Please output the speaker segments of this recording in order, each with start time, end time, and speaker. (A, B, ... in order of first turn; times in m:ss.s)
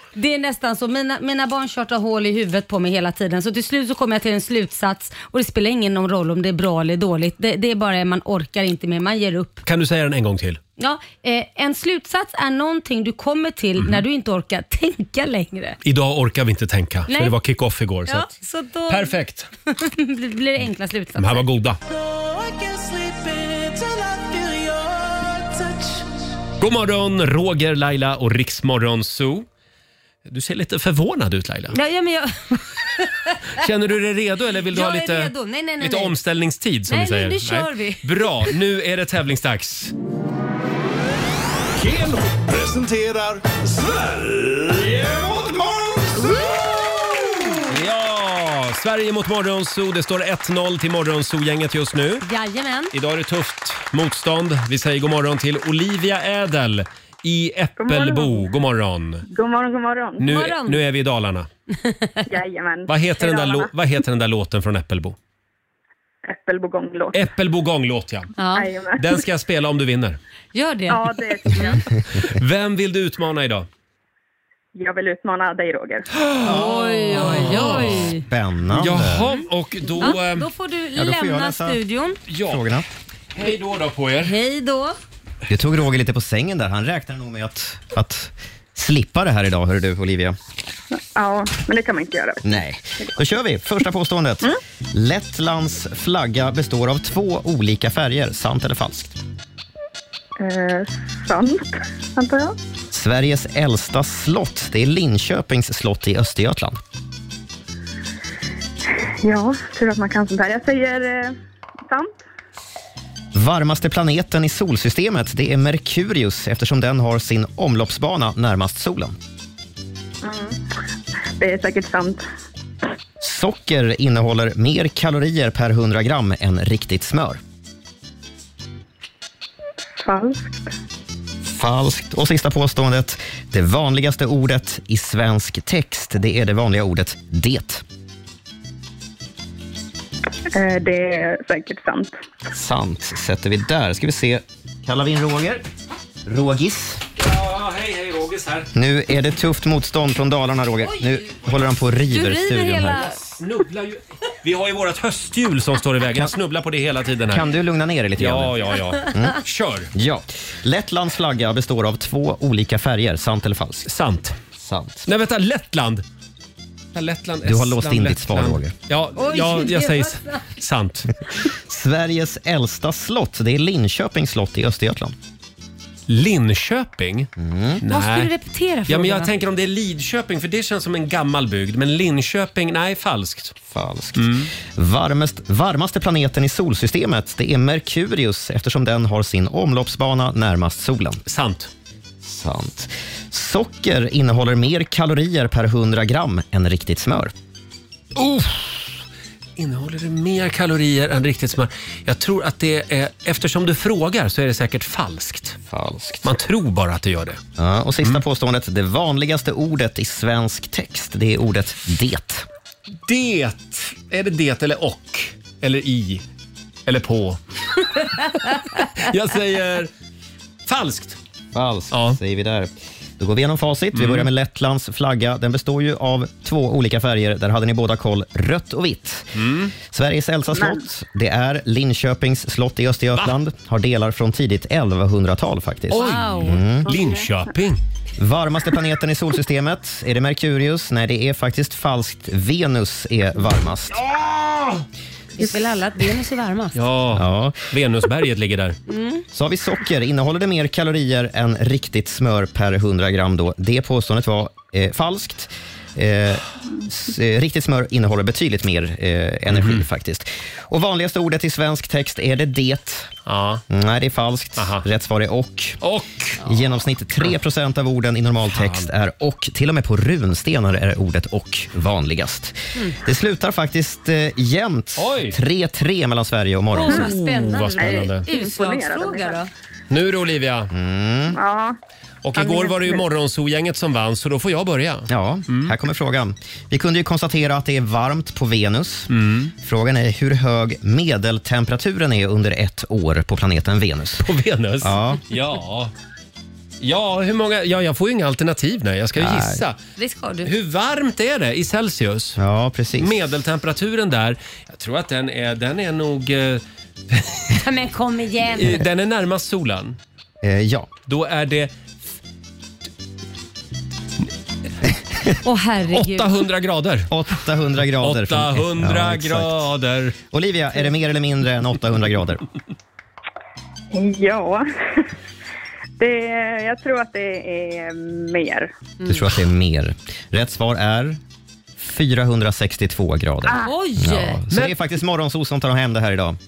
0:00.2-0:09.6 A
0:09.6-0:10.6 B
0:10.8-0:15.8 A
0:15.8-0:18.3 B
0:17.1-0:17.4 A
0:18.1-0:19.2 A
0:18.9-0:19.5 B
0:19.7-0:21.4 A
0:21.2-0:21.8 B
0:26.6-0:29.5 B
0:30.3-0:31.8 B
0:31.7-0:33.6 A
0:33.6-0:39.9 B
0:34.7-0:36.2 A
0:36.9-0:38.5 A
0:41.8-0:46.4 C
0:46.2-0:46.5 A
0:47.7-0:52.3 B
0:52.2-0:52.9 A
0:52.9-0:59.2 B
0:57.8-0:58.5 D
0:59.3-1:00.3 D
1:00.2-1:01.5 B
1:00.2-1:00.8 A
1:01.8-1:02.1 A
1:02.3-1:03.7 D
1:02.9-1:05.2 B
1:06.2-1:07.2 D
1:07.1-1:08.3 B
1:08.4-1:08.7 A
1:08.5-1:09.2 D
1:09.0-1:10.2 B
1:10.5-1:11.8 A
1:10.9-1:11.9 D
1:12.2-1:13.7 B
1:14.8-1:16.1 D
1:16.4-1:18.1 B
1:16.4-1:19.3 E
1:16.4-1:18.2 A
1:18.7-1:20.5 B
1:20.0-1:22.2 A
1:21.0-1:21.8 E
1:22.3-1:22.6 B
1:22.5-1:22.9 E
1:23.3-1:24.4 B
1:24.2-1:25.0 A
1:25.5-1:30.4 E
1:31.2-1:32.6 D
1:32.4-1:39.2 E
1:40.4-1:42.6 D
1:42.9-1:46.8 E
1:48.9-1:51.4 D
1:51.9-1:52.2 D
1:53.3-1:59.2 E
2:00.2-2:00.6 D
2:01.4-2:02.2 D
2:03.2-2:07.4 E
2:10.0-2:10.7 D
2:11.5-2:17.8 E
2:20.5-2:22.2 D
2:22.5-2:25.6 E
2:26.2-2:27.0 E
2:27.2-2:28.7 B
2:28.7-2:33.1 E
2:32.1-2:33.2 A
2:33.0-2:37.5 B
2:37.3-2:39.4 E
2:38.2-2:39.9 B
2:39.9-2:43.9 E
2:43.9-2:44.4 B
2:44.6-2:45.1 E
2:45.1-2:46.0 B
2:46.9-2:51.1 B
2:47.4-2:48.8 E
2:49.2-2:50.5 A
2:51.4-2:55.2 E
2:56.1-2:57.3 B
2:57.4-2:57.8 E
2:57.8-2:58.3 B
2:57.9-2:59.3 A
2:58.9-3:03.6 B
3:03.7-3:11.2 E
3:04.2-3:04.5 B
3:11.3-3:11.7 B
3:12.2-3:17.3 E
3:18.2-3:19.0 B
3:19.6-3:25.6 B
3:25.7-3:26.3 E
3:26.2-3:27.4 B
3:27.6-3:32.5 E
3:33.1-3:36.2 B
3:36.9-3:39.9 B
3:40.7-3:41.2 B
3:41.5-3:56.9 E
3:41.9-3:42.2 B
3:43.9-3:44.3 B
3:49.4-3:49.7 B
3:50.5-3:50.8 D
3:55.9-3:57.8 B
3:55.9-3:56.6 A
3:58.2-4:04.0 E
4:04.1-4:04.8 B
4:05.4-4:06.8 A
4:06.8-4:08.8 B
4:07.1-4:07.7 E
4:08.9-4:09.2 A
4:09.3-4:23.1 E
4:19.5-4:19.8 B
4:23.3-4:23.6 B
4:23.7-4:25.8 E
4:24.6-4:24.8 B
4:25.8-4:26.5 B
4:26.4-4:37.1 E
4:28.5-4:28.9 B
4:35.0-4:35.4 B
4:36.7-4:39.5 A
4:37.0-4:38.3 B
4:37.8-4:39.4 D
4:39.9-4:40.7 B
4:40.7-4:41.4 E
4:41.3-4:41.8 D
4:42.2-4:45.7 B
4:42.4-4:43.0 D
4:45.1-4:54.3 E
4:49.1-4:49.5 B
4:54.2-4:55.9 B
4:54.8-4:55.2 E
4:56.8-4:59.8 B
4:59.2-4:59.6 E
5:00.0-5:00.5 A
5:00.4-5:02.4 B
5:02.4-5:03.2 E
5:03.0-5:07.6 B
5:07.5-5:08.8 A
5:08.6-5:10.0 B
5:10.4-5:10.9 E
5:11.1-5:11.7 B
5:15.4-5:16.3 A
5:15.9-5:17.1 B
5:17.1-5:19.6 E
5:18.0-5:20.2 B
5:20.3-5:22.4 E
5:23.9-5:25.1 D
5:26.0-5:28.7 D
5:29.0-5:31.2 E
5:31.8-5:36.4 E
5:33.5-5:34.4 A